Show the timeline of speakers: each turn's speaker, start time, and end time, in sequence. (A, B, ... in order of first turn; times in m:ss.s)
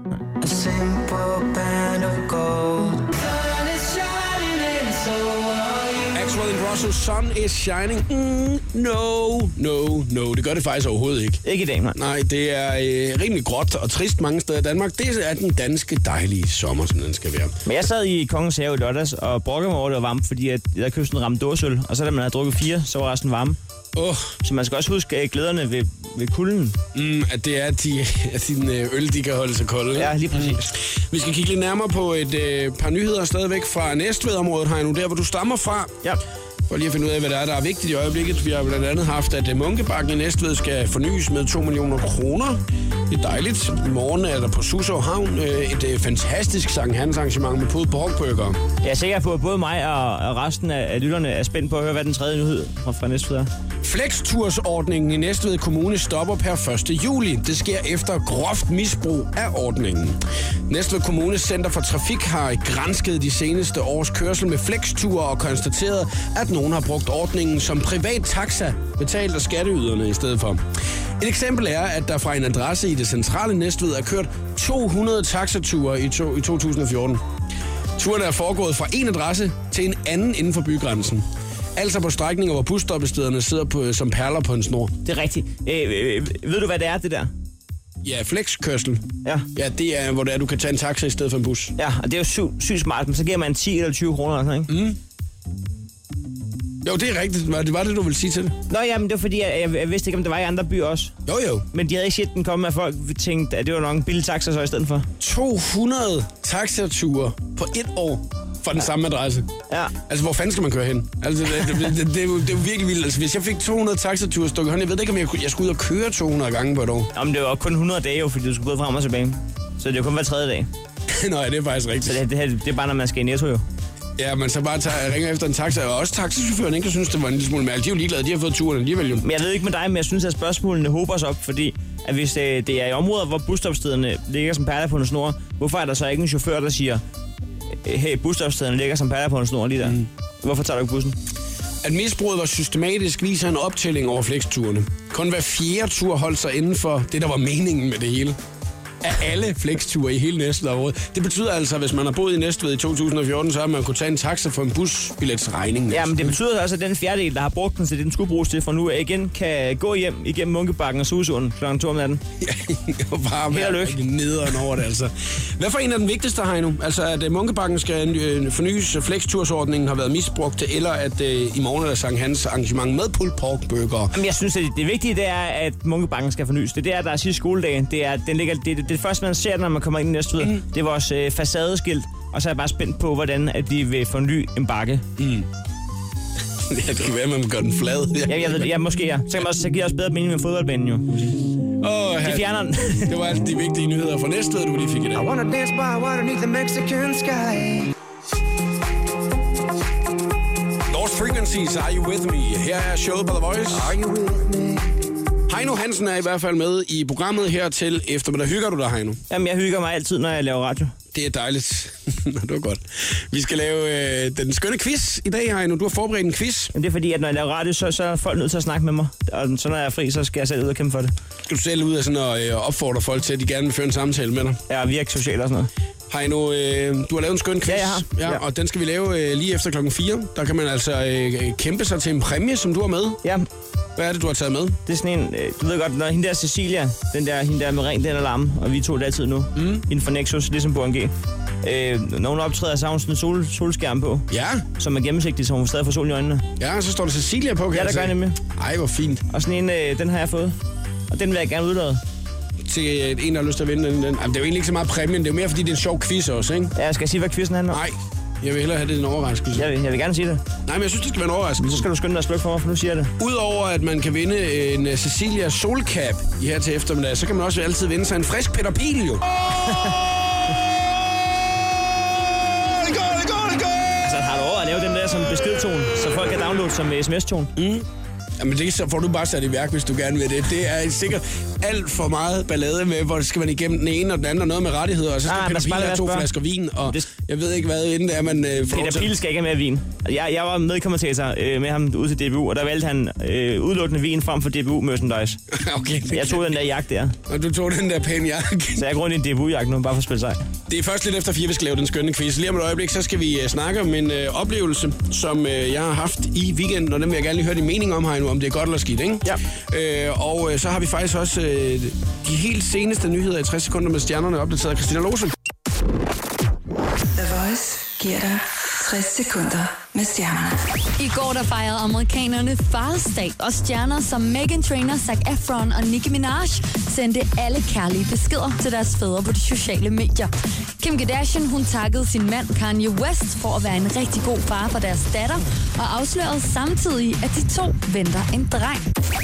0:00.4-0:06.2 A
0:06.1-0:11.4 B
0:11.4-0:12.0 C
0:11.9-0:17.6 B
0:17.6-0:23.6 C
0:23.9-0:24.4 B
0:24.4-0:26.8 C
0:26.9-0:35.9 B
0:30.0-0:30.7 C
0:36.7-0:48.6 B
0:48.8-0:53.5 C
0:53.8-1:10.6 B
1:11.2-1:17.2 B
1:18.0-1:24.9 B
1:25.0-1:27.3 C
1:28.0-1:31.7 B
1:31.8-1:34.7 C
1:34.7-1:35.0 B
1:36.8-1:38.5 B
1:38.7-1:41.1 C
1:41.2-1:41.7 B
1:41.7-1:45.1 C
1:45.2-1:49.5 B
1:50.1-1:57.1 B
1:57.1-2:00.7 C
2:01.1-2:02.2 B
2:02.0-2:03.6 C
2:04.2-2:09.3 B
2:09.2-2:17.0 C
2:17.7-2:21.2 C
2:21.8-2:28.4 B
2:29.0-2:36.4 B
2:35.9-2:42.2 C
2:42.4-2:54.1 B
2:43.5-2:44.0 C
2:54.1-3:05.0 C
3:05.2-3:05.5 B
3:06.7-3:08.7 B
3:08.3-3:11.4 C
3:11.8-3:12.5 B
3:12.2-3:13.1 C
3:13.0-3:15.3 B
3:15.1-3:17.9 A
3:20.9-3:24.0 B
3:23.7-3:24.9 A
3:25.5-3:29.2 B
3:29.3-3:30.9 C
3:31.1-3:36.7 B
3:36.7-3:41.1 C
3:41.4-3:44.6 B
3:44.7-3:45.7 C
3:46.1-3:53.2 B
3:47.7-3:48.4 C
3:54.0-3:54.8 B
3:54.8-4:01.1 C
3:59.5-3:59.8 B
4:01.6-4:04.3 C
4:04.3-4:04.6 B
4:04.8-4:06.4 C
4:06.6-4:09.2 B
4:07.7-4:08.4 C
4:09.3-4:10.6 C
4:11.1-4:12.0 C
4:12.6-4:16.7 B
4:16.8-4:17.8 C
4:17.7-4:19.7 B
4:19.5-4:20.4 C
4:20.6-4:21.9 B
4:21.6-4:23.1 C
4:23.2-4:29.2 B
4:29.6-4:30.0 C
4:32.3-4:34.1 B
4:34.0-4:37.5 C
4:37.6-4:37.8 B
4:38.4-4:49.1 B
4:45.3-4:46.3 C
4:48.7-4:55.4 C
4:55.5-4:56.6 B
4:56.1-4:57.2 C
4:57.2-4:58.8 B
4:58.8-5:00.4 C
5:00.7-5:15.3 B
5:17.2-5:20.6 D
5:21.0-5:38.9 E